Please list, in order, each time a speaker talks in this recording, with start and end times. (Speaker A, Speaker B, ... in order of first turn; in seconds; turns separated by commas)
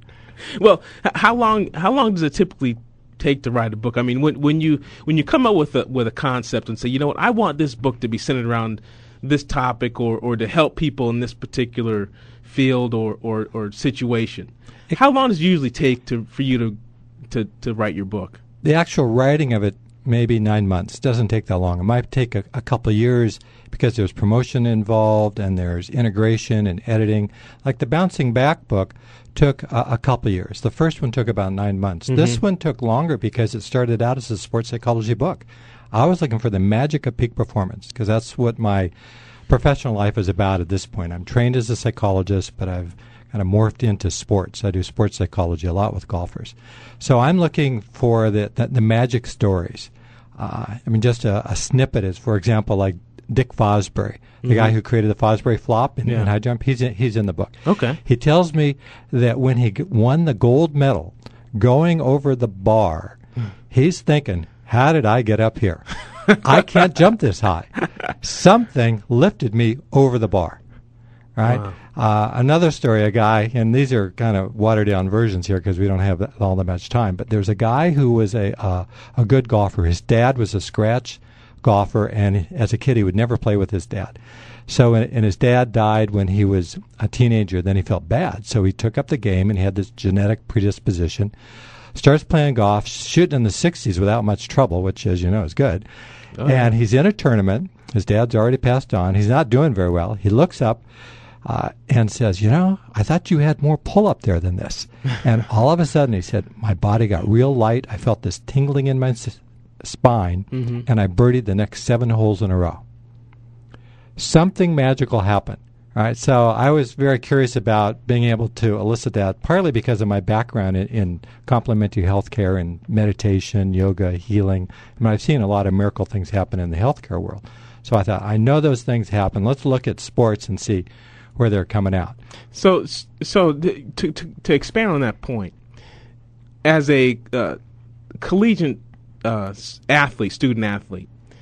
Speaker A: 0.6-16.8, Speaker A: 17.3-18.4, Speaker B: 18.6-38.9, Speaker A: 32.1-32.4, Speaker B: 39.5-63.2, Speaker A: 54.4-54.7, Speaker A: 57.7-58.0, Speaker B: 63.7-70.6, Speaker B: 71.4-91.3, Speaker A: 71.5-71.7, Speaker B: 91.9-95.8, Speaker A: 96.4-96.7, Speaker B: 96.4-100.8, Speaker B: 101.5-112.8, Speaker A: 110.5-110.8, Speaker B: 114.2-132.2, Speaker A: 132.5-135.6, Speaker A: 136.6-137.6, Speaker A: 138.2-141.1